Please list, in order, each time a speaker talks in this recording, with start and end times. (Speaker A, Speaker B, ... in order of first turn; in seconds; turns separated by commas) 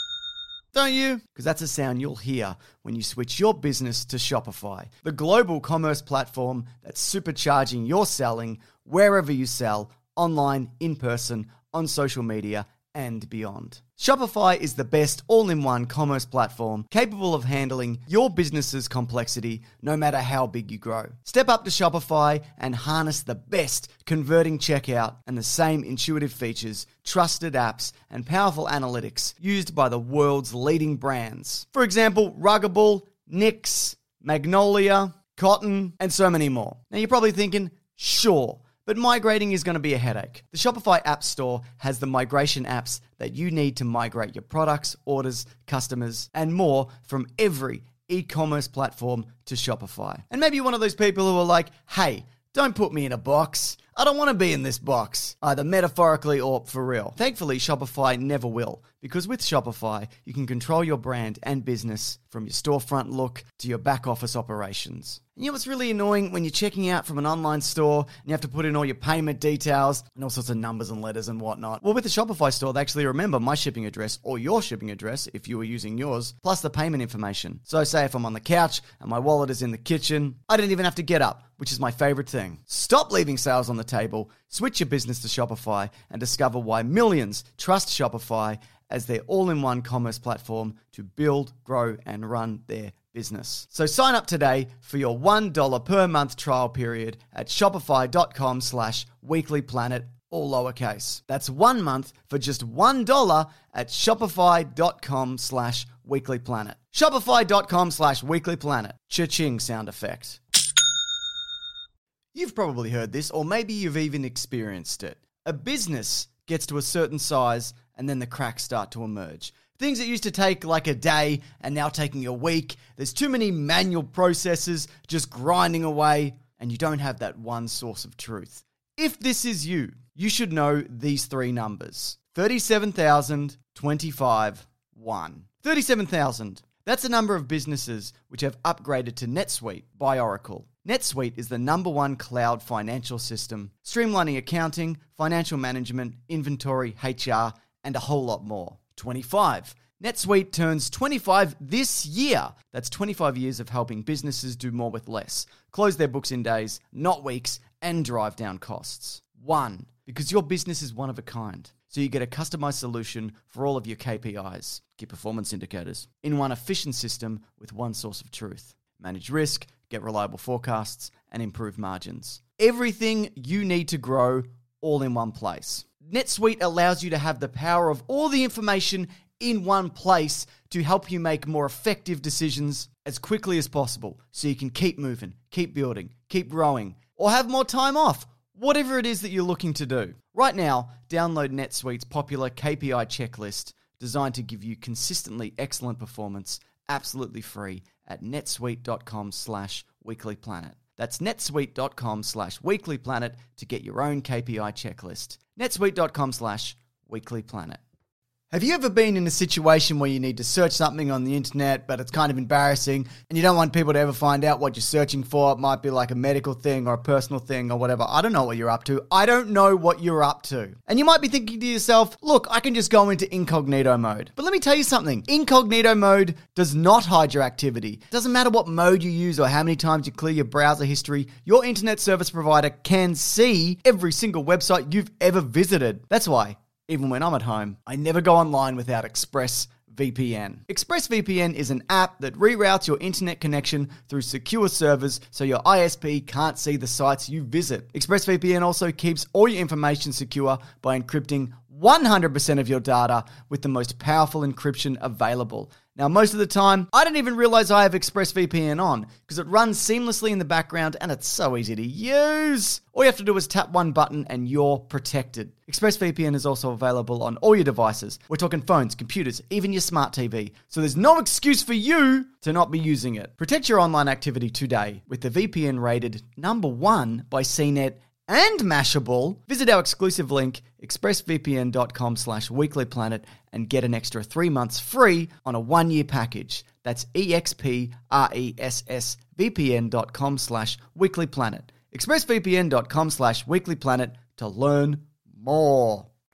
Speaker A: 0.7-110.4, Speaker A: 112.3-207.8, Speaker A: 208.5-296.1